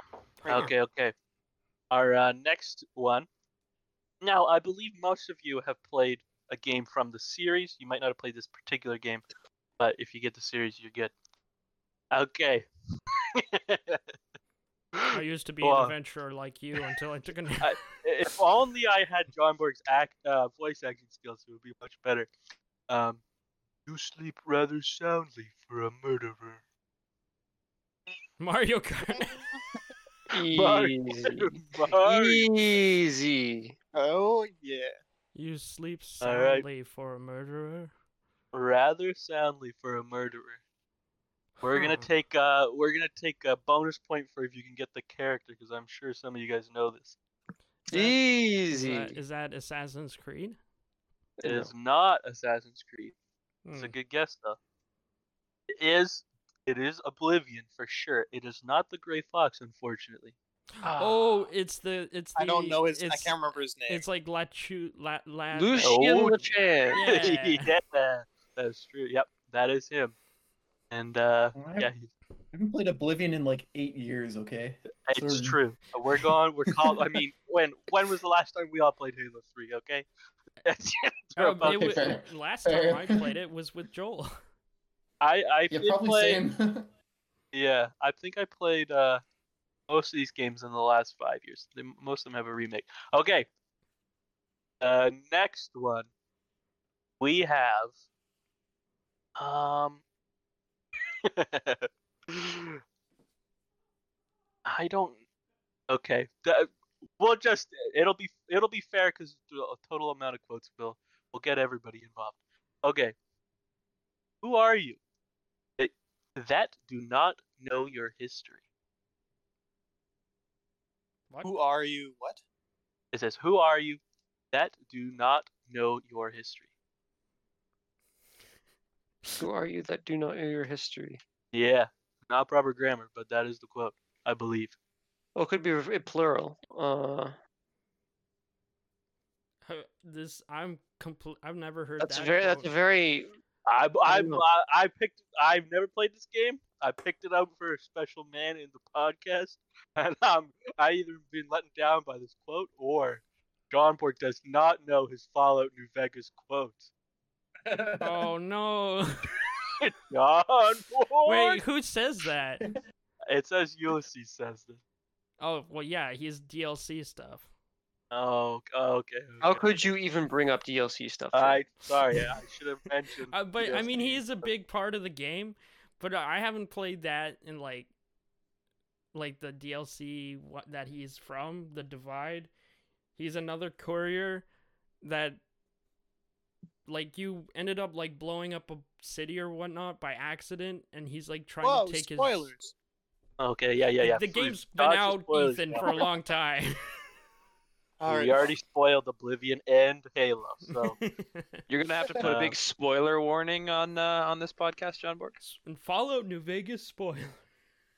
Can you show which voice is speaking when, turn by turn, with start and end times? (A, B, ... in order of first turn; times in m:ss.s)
0:00.4-0:00.7 A
0:00.4-0:01.1 B
0:01.9-0:03.3 B
0:04.2-0:09.2 B
0:09.8-0:11.1 B
0:12.1-0:12.7 B
0:13.3-0:14.0 B
0:14.9-0:15.9 B
0:15.1-0:17.8 C
0:17.6-0:22.3 B
0:22.9-0:23.2 B
0:23.8-0:26.6 B
0:28.4-0:29.4 C
0:30.3-0:33.7 D
0:30.5-0:32.5 B
0:33.9-0:34.9 A
0:35.3-0:37.9 C
0:36.2-0:36.6 B
0:38.5-0:40.6 B
0:41.6-0:47.2 B
0:41.7-0:42.1 C
0:47.9-0:49.2 D
0:47.9-0:48.2 C
0:48.7-0:50.6 C
0:51.4-0:51.7 D
0:51.4-0:53.1 B
0:53.6-0:53.9 C
0:53.7-0:54.6 B
0:55.7-1:00.3 B
1:00.9-1:06.0 C
1:02.4-1:04.0 A
1:05.5-1:07.1 D
1:05.8-1:06.4 B
1:06.9-1:10.2 B
1:06.9-1:07.7 C
1:10.9-1:12.1 B
1:11.5-1:11.9 E
1:12.5-1:15.6 E
1:15.1-1:20.1 B
1:20.6-1:22.2 B
1:21.4-1:24.3 C
1:21.6-1:23.3 E
1:25.2-1:26.4 B
1:25.7-1:26.9 E
1:27.5-1:29.2 B
1:29.9-1:33.5 B
1:34.8-1:36.1 B
1:37.2-1:37.9 B
1:39.4-1:40.0 B
1:41.2-1:42.8 B
1:44.6-1:45.2 B
1:45.9-1:53.1 B
1:54.4-1:55.0 B
1:55.8-1:58.6 B
2:01.4-2:02.4 A
2:03.1-2:04.0 B
2:04.5-2:06.6 B
2:09.4-2:11.2 D
2:11.5-2:14.8 B
2:15.4-2:17.4 D
2:19.6-2:22.7 C
2:22.0-2:23.3 D
2:23.6-2:36.9 B
2:24.0-2:24.4 D
2:37.6-2:38.3 E
2:38.0-2:39.3 C
2:39.8-2:41.6 B
2:41.2-2:42.6 C
2:43.3-2:44.8 B
2:45.4-2:47.5 C
2:48.1-2:49.6 B
2:49.4-2:51.7 D
2:51.3-2:54.3 B
2:53.3-2:57.9 C
2:59.1-3:02.5 C
3:03.2-3:04.4 C
3:05.0-3:05.4 C
3:06.8-3:12.5 C
3:11.6-3:12.7 A
3:13.4-3:16.0 B
3:14.0-3:16.8 C
3:18.0-3:18.5 A
3:18.0-3:21.0 B
3:20.7-3:21.6 C
3:21.7-3:25.4 F
3:22.2-3:22.5 B
3:25.4-3:27.4 C